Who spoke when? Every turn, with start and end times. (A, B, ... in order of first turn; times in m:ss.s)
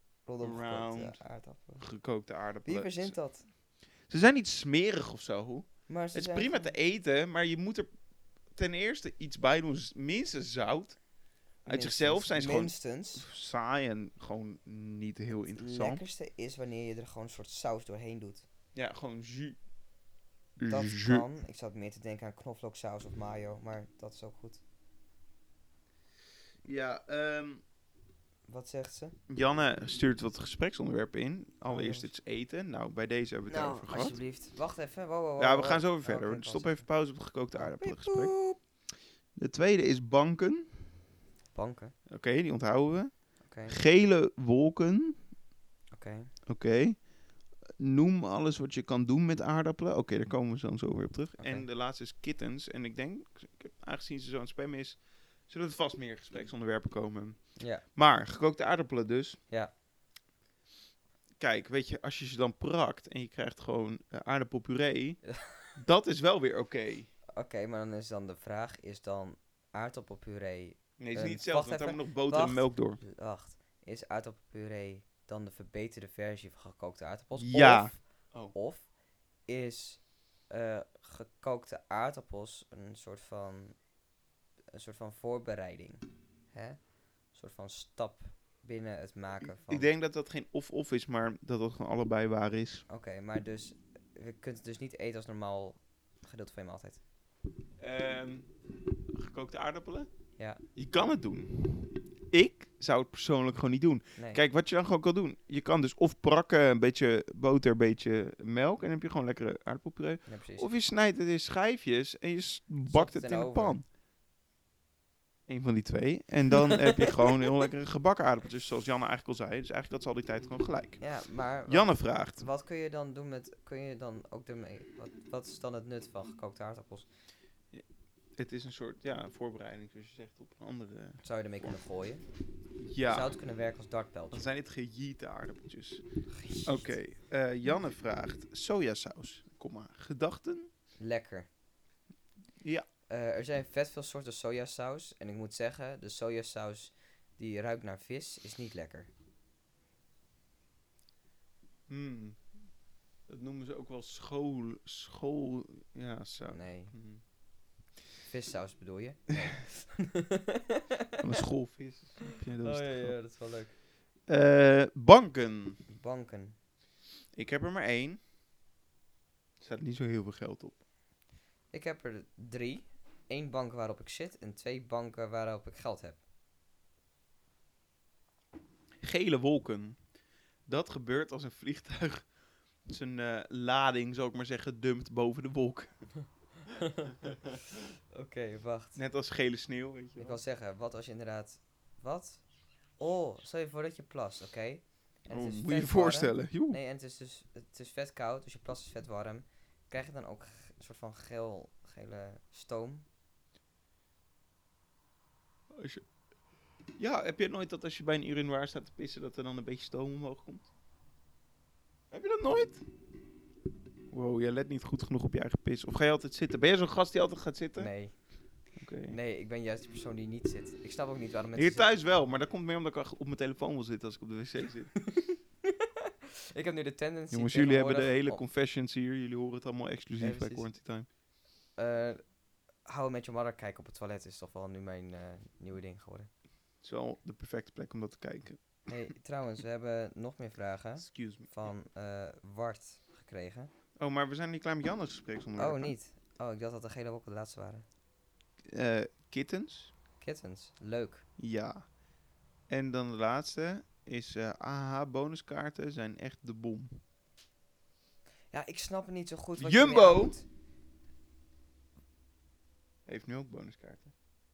0:00.3-0:01.9 A
0:00.4-0:01.2 B
0:01.8-0:03.2 B
0:02.6-0:03.5 A
0:04.1-0:07.9 B
0:05.9-0:06.7 A
0:08.6-0:11.0 B
0:11.6-0:16.0 B
0:11.7-0:13.3 A
0:15.6-0:18.5 A
0:18.8-0:19.6 B
0:20.6-0:21.3 B
0:20.7-0:24.6 A
0:26.6-0:27.6 B
0:28.5-0:29.2 A
0:29.3-0:34.2 B
0:31.7-0:32.1 A
0:33.5-0:36.9 A
0:35.4-0:38.3 B
0:37.6-0:38.6 A
0:39.4-0:41.0 B
0:41.5-0:41.9 A
0:42.1-0:43.1 B
0:43.5-0:43.8 A
0:43.7-0:45.2 B
0:45.9-0:46.3 A
0:46.5-0:47.0 B
0:47.8-0:57.4 B
0:51.4-0:51.6 A
0:57.6-0:57.8 A
0:57.9-0:59.4 B
1:01.4-1:05.2 B
1:05.3-1:05.7 A
1:05.8-1:07.1 B
1:07.4-1:18.0 A
1:11.0-1:13.0 B
1:17.4-1:18.6 B
1:18.5-1:18.9 A
1:19.5-1:23.8 A
1:24.7-1:26.8 A
1:27.3-1:29.9 A
1:29.4-1:32.8 B
1:32.9-1:37.0 A
1:37.8-1:38.5 B
1:39.1-1:40.1 B
1:40.8-1:53.8 B
1:44.2-1:44.4 A
1:50.3-1:50.7 A
1:52.9-1:53.8 A
1:55.5-2:01.0 B
1:56.8-1:57.4 A
2:01.0-2:07.1 A
2:01.7-2:02.4 B
2:08.4-2:11.7 B
2:11.2-2:12.2 A
2:12.8-2:13.3 B
2:13.1-2:14.5 A
2:14.3-2:16.0 B
2:16.3-2:16.9 A
2:16.6-2:20.7 B
2:21.0-2:21.5 A
2:22.6-2:22.9 B
2:23.1-2:29.1 A
2:31.9-2:32.4 B
2:33.3-2:37.2 B
2:36.5-2:36.9 A
2:38.3-2:41.2 A
2:41.2-2:43.2 B
2:42.2-2:43.7 A
2:44.3-2:45.8 B
2:45.9-2:46.6 A
2:47.4-2:48.2 B
2:49.6-2:50.8 B
2:51.7-2:56.2 A
2:59.0-3:00.0 B
3:00.7-3:02.3 B
3:02.9-3:05.9 B
3:06.7-3:07.1 A
3:07.2-3:07.6 B
3:08.1-3:09.0 A
3:09.0-3:10.4 B
3:10.2-3:12.4 A
3:13.0-3:23.0 A
3:15.3-3:16.8 B
3:25.7-3:26.1 B
3:27.0-3:30.7 B
3:32.1-3:32.8 B
3:34.1-3:37.9 B
3:37.8-3:38.1 A
3:38.8-3:39.2 B
3:39.1-3:41.9 A
3:41.6-3:44.9 B
3:45.0-3:48.4 A
3:47.3-3:51.1 B
3:50.2-3:50.7 A
3:51.8-3:52.2 A
3:52.9-3:56.3 A
3:56.8-3:58.6 B
3:58.9-4:03.7 A
4:01.0-4:01.5 B
4:04.0-4:05.9 B
4:05.6-4:07.8 A
4:08.7-4:09.9 B
4:10.2-4:11.2 A
4:11.4-4:11.9 B
4:12.7-4:17.0 B
4:18.5-4:20.5 A
4:19.6-4:20.4 B
4:23.1-4:24.1 B